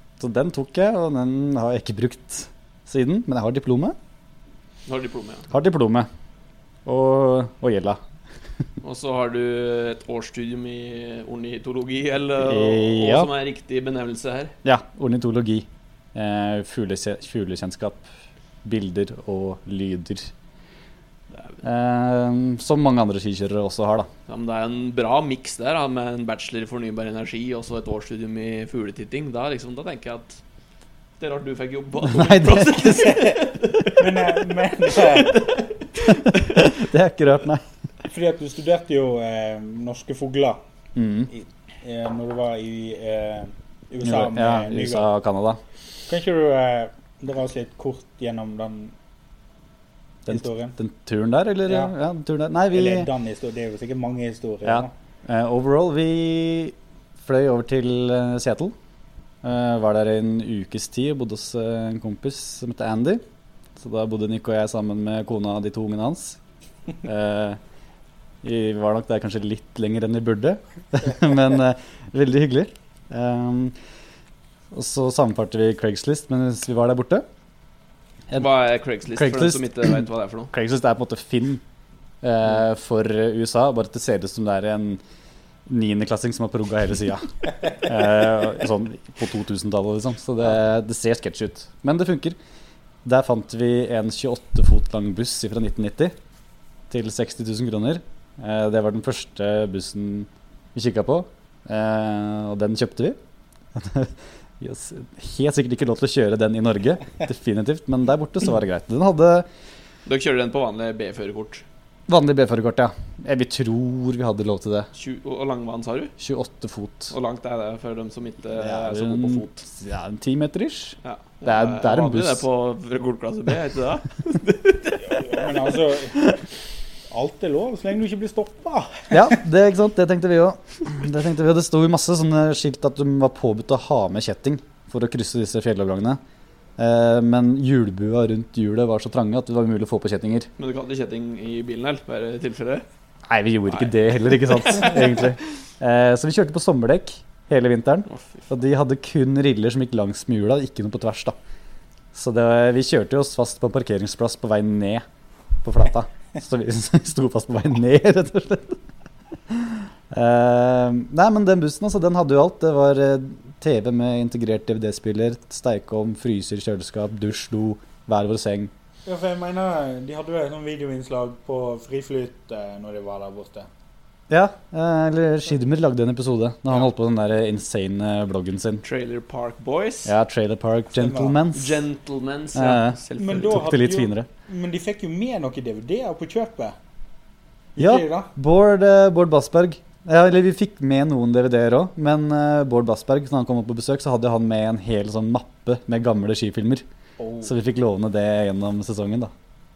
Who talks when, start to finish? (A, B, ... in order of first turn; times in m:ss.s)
0:00.2-0:04.0 A
0:04.9-0:05.5 B
0:05.5-0:06.1 A
0:06.8-0:08.0 A
0:08.8-0:14.5 B
0:12.4-0:13.3 A
0:14.6-0:18.0 A
0:18.6-0:20.3 A
0:21.3-0:21.6 B
0:21.6-0:24.1 A
0:24.3-0:30.4 B
0:31.2-0:36.7 B
0:32.0-0:33.2 A
0:33.0-0:35.4 C
0:36.3-0:37.6 A
0:38.1-0:40.6 C
0:40.9-0:41.3 A
0:41.3-0:45.1 C
0:44.0-0:45.6 A
0:46.1-0:48.9 C
0:50.2-0:53.1 A
0:50.3-0:50.7 C
0:51.7-0:51.9 C
0:52.7-0:54.9 C
0:54.6-0:58.7 A
0:59.4-1:03.2 A
1:03.8-1:06.4 A
1:07.0-1:07.6 A
1:08.4-1:13.8 A
1:14.7-1:17.2 A
1:18.3-1:20.5 B
1:19.1-1:21.6 A
1:22.2-1:25.0 A
1:25.6-1:32.4 A
1:33.0-1:36.1 A
1:36.9-1:43.2 A
1:43.7-1:49.5 A
1:50.0-1:51.6 B
1:52.1-1:54.9 A
1:54.9-1:56.1 B
1:56.2-1:57.1 A
1:57.1-1:59.7 B
1:58.6-2:02.4 A
2:01.0-2:05.5 B
2:05.1-2:06.4 C
2:07.1-2:09.4 C
2:09.1-2:16.2 A
2:16.8-2:20.5 A
2:20.6-2:22.8 B
2:23.3-2:31.4 A
2:23.7-2:25.3 B
2:28.1-2:28.5 B
2:32.1-2:35.0 A
2:35.6-2:38.8 A
2:39.5-2:48.7 A
2:49.0-2:53.7 C
2:54.3-2:58.8 A
2:58.8-3:00.1 B
3:00.0-3:01.8 A
3:01.0-3:01.4 C
3:01.5-3:03.6 B
3:02.5-3:04.3 A
3:03.2-3:06.8 C
3:07.8-3:08.3 C
3:07.8-3:16.8 A
3:17.2-3:17.5 C
3:17.4-3:19.3 A